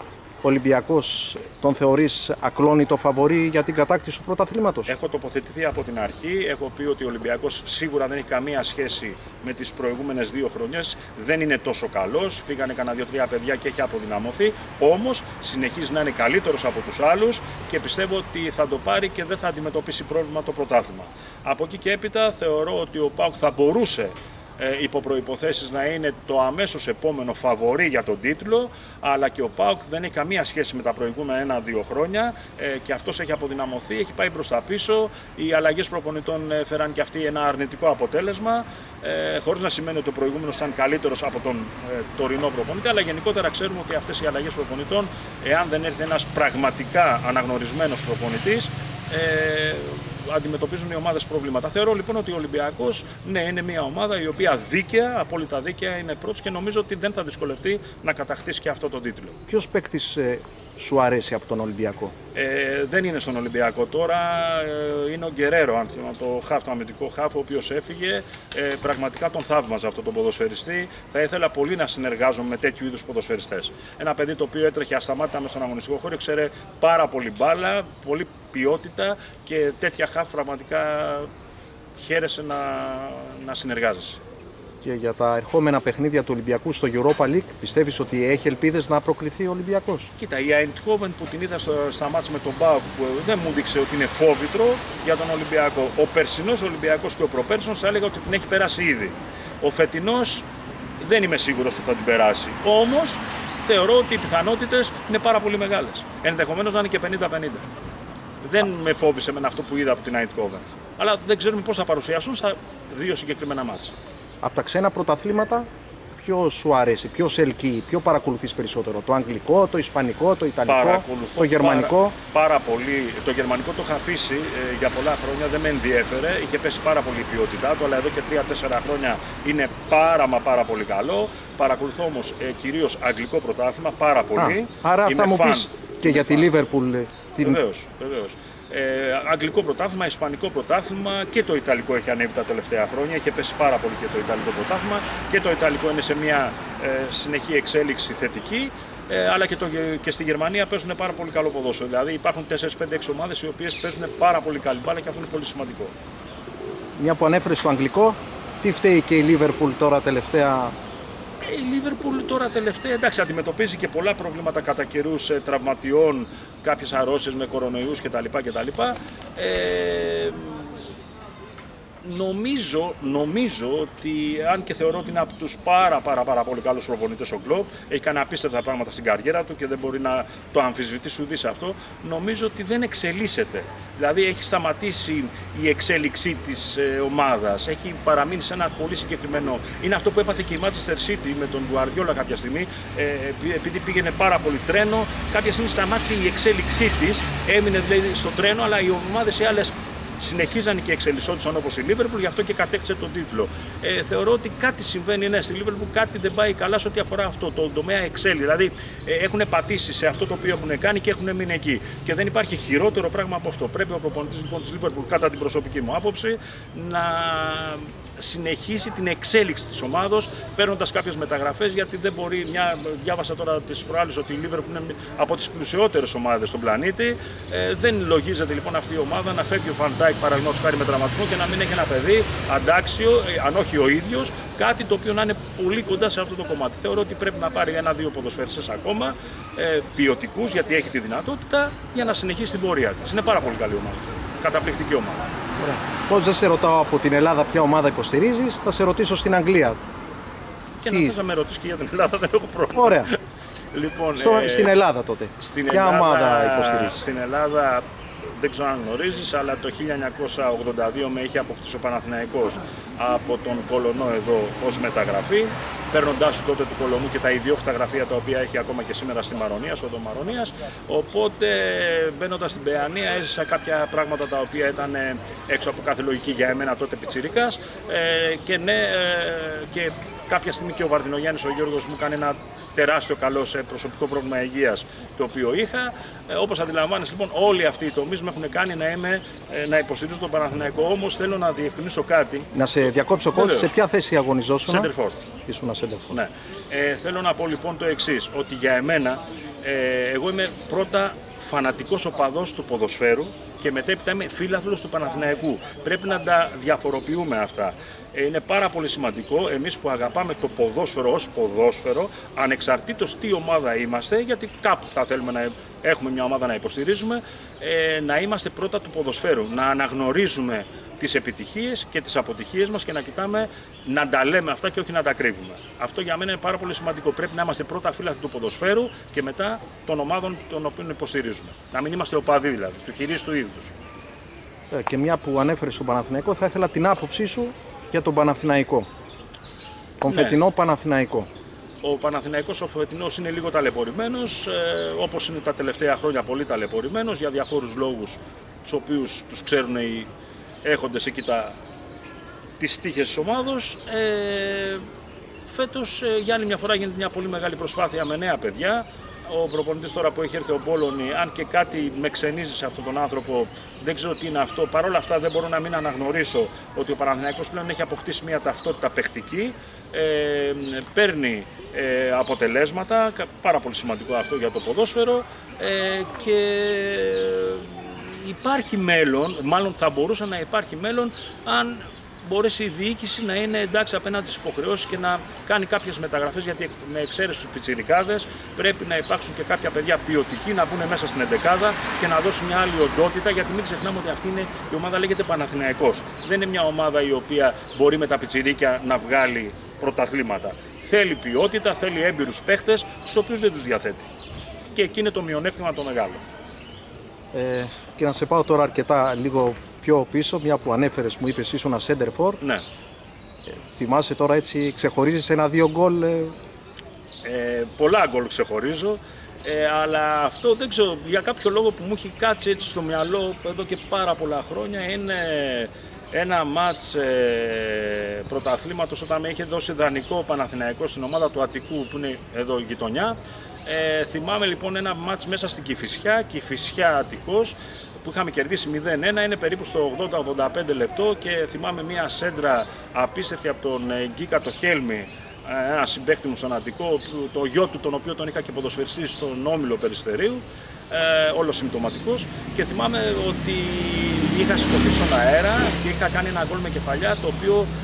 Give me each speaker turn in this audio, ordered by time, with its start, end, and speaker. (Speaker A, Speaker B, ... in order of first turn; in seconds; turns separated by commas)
Speaker A: 0.4-4.9, Speaker B: 4.9-59.4, Speaker A: 59.5-62.1, Speaker B: 62.3-81.3, Speaker B: 82.0-84.2, Speaker A: 84.8-90.1, Speaker B: 90.2-100.5, Speaker B: 101.0-107.6, Speaker B: 108.4-114.0, Speaker A: 114.4-122.1, Speaker B: 120.7-136.5, Speaker A: 134.3-137.6, Speaker B: 137.4-155.9, Speaker A: 156.9-160.8, Speaker B: 161.4-170.8, Speaker B: 172.0-245.3, Speaker A: 245.6-249.8, Speaker B: 250.8-253.2, Speaker A: 250.9-251.1, Speaker A: 252.7-253.1, Speaker B: 253.7-254.7, Speaker A: 254.2-257.0, Speaker B: 255.4-292.5, Speaker A: 292.5-294.9, Speaker B: 293.4-293.7, Speaker B: 294.7-295.2, Speaker A: 295.5-296.2, Speaker B: 296.1-333.7, Speaker A: 334.7-338.9, Speaker A: 340.0-341.3, Speaker B: 340.1-340.4, Speaker B: 341.8-350.1, Speaker B: 350.6-351.6, Speaker B: 352.6-354.8, Speaker B: 355.4-404.1, Speaker B: 404.7-406.2, Speaker A: 407.3-412.4, Speaker A: 413.4-416.4, Speaker B: 417.2-457.7